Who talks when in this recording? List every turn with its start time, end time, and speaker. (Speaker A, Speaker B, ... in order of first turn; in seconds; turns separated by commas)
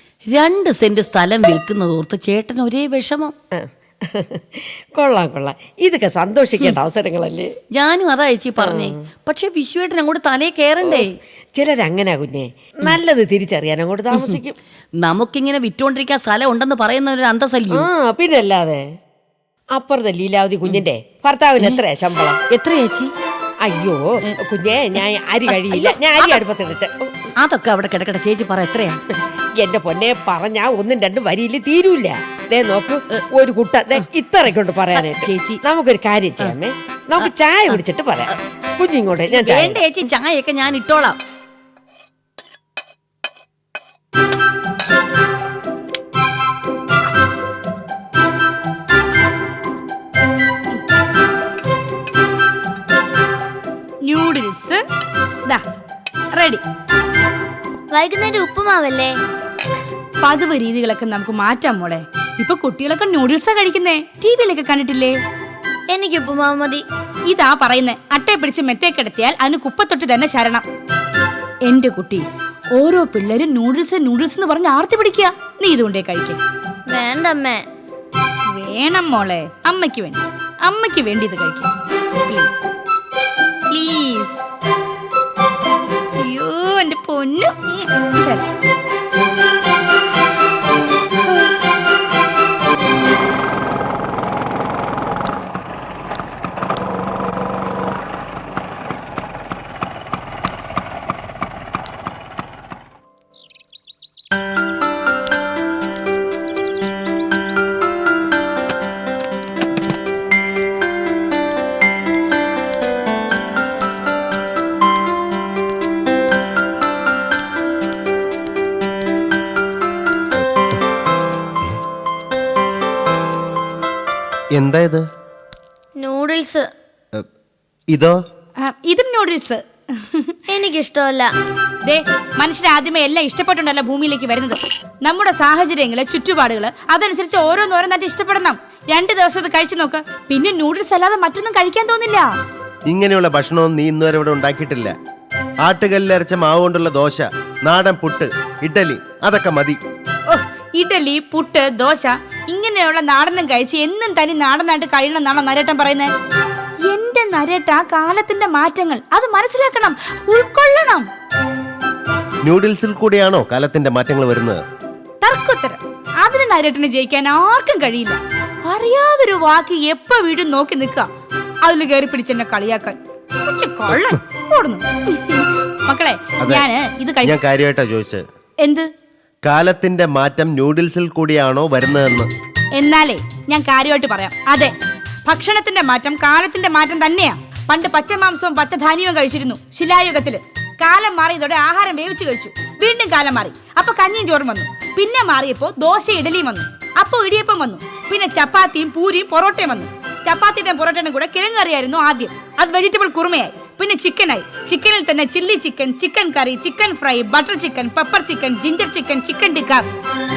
Speaker A: 0.3-3.3, Speaker B: 3.5-7.5, Speaker A: 7.7-11.1, Speaker B: 8.6-8.9, Speaker B: 10.8-14.6, Speaker A: 15.0-17.9, Speaker B: 17.7-18.8, Speaker B: 19.7-22.4, Speaker A: 22.5-23.1, Speaker B: 23.6-27.1, Speaker A: 25.5-26.4, Speaker A: 27.4-29.0, Speaker B: 29.6-39.8, Speaker A: 34.9-35.6, Speaker A: 37.2-37.8, Speaker A: 39.3-41.2, Speaker C: 54.0-54.8, Speaker C: 56.3-56.6, Speaker D: 57.9-59.1, Speaker C: 60.2-65.2, Speaker D: 65.9-66.8, Speaker C: 67.3-70.6, Speaker C: 71.7-76.4, Speaker D: 76.9-77.6, Speaker C: 78.5-81.7, Speaker C: 82.3-82.7, Speaker C: 83.7-84.5, Speaker C: 86.2-88.5, Speaker C: 91.2-91.6, Speaker E: 124.5-125.0, Speaker D: 126.0-126.7, Speaker E: 127.9-128.2, Speaker C: 128.6-130.4, Speaker D: 130.5-131.3, Speaker C: 131.8-142.3, Speaker E: 142.9-144.9, Speaker E: 145.6-149.8, Speaker C: 150.3-156.1, Speaker C: 156.9-161.1, Speaker E: 162.4-164.6, Speaker C: 165.2-171.1, Speaker C: 171.6-177.3, Speaker E: 176.4-176.7, Speaker E: 177.2-178.2, Speaker C: 178.6-178.9, Speaker E: 179.4-182.3, Speaker C: 182.7-184.7, Speaker C: 185.2-209.8